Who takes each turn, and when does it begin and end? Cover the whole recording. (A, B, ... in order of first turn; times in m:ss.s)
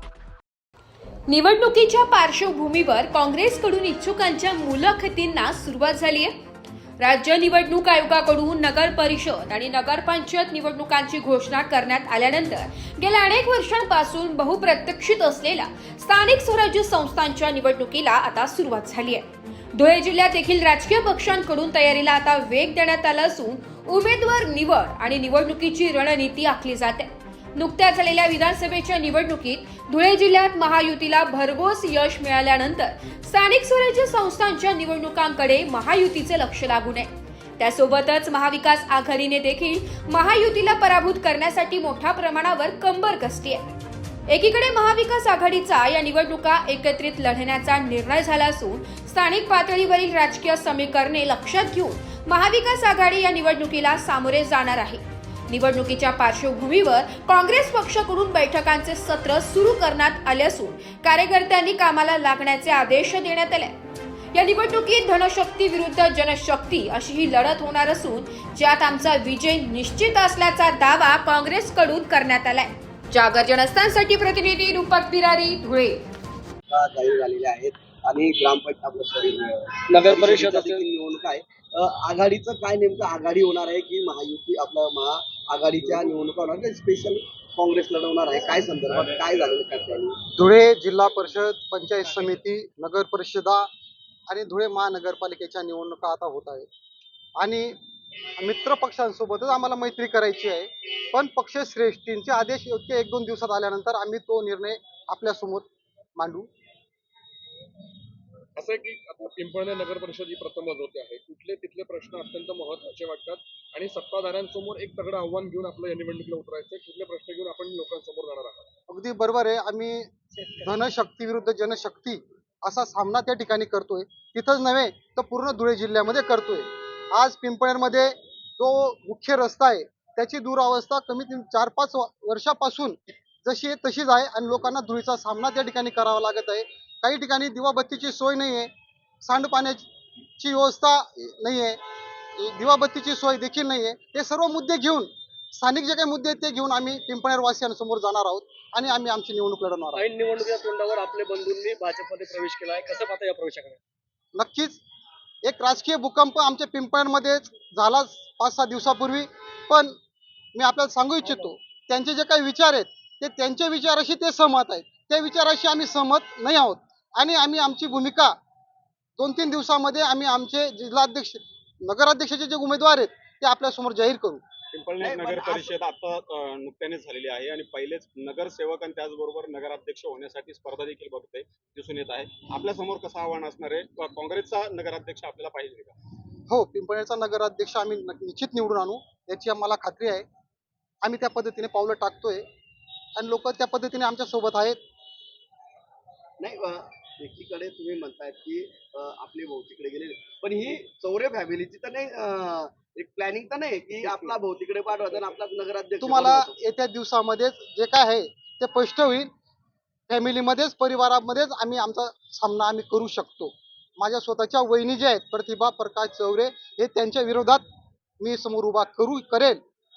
0:01.3-0:06.3 A
0:07.0-0:43.6 A
0:44.3-1:03.8 A
1:04.3-1:16.0 A
1:16.7-1:30.2 B
1:20.0-1:20.8 C
1:30.4-1:33.7 D
1:34.3-1:36.7 D
1:37.4-1:37.8 D
1:38.4-1:46.5 D
1:48.6-1:58.7 E
1:58.9-2:18.7 D
2:19.2-2:19.9 D
2:20.4-2:21.8 D
2:22.4-2:30.0 D
2:30.0-2:33.8 C
2:34.4-2:34.8 D
2:35.4-2:40.0 D
2:40.6-2:48.3 D
2:49.2-2:54.4 D
2:54.7-3:06.0 F
2:55.0-2:55.8 B
3:06.5-3:10.2 D
3:11.0-3:12.4 D
3:13.2-3:14.8 D
3:16.4-3:26.6 B
3:26.0-3:29.3 D
3:30.1-3:37.6 D
3:38.2-3:39.6 D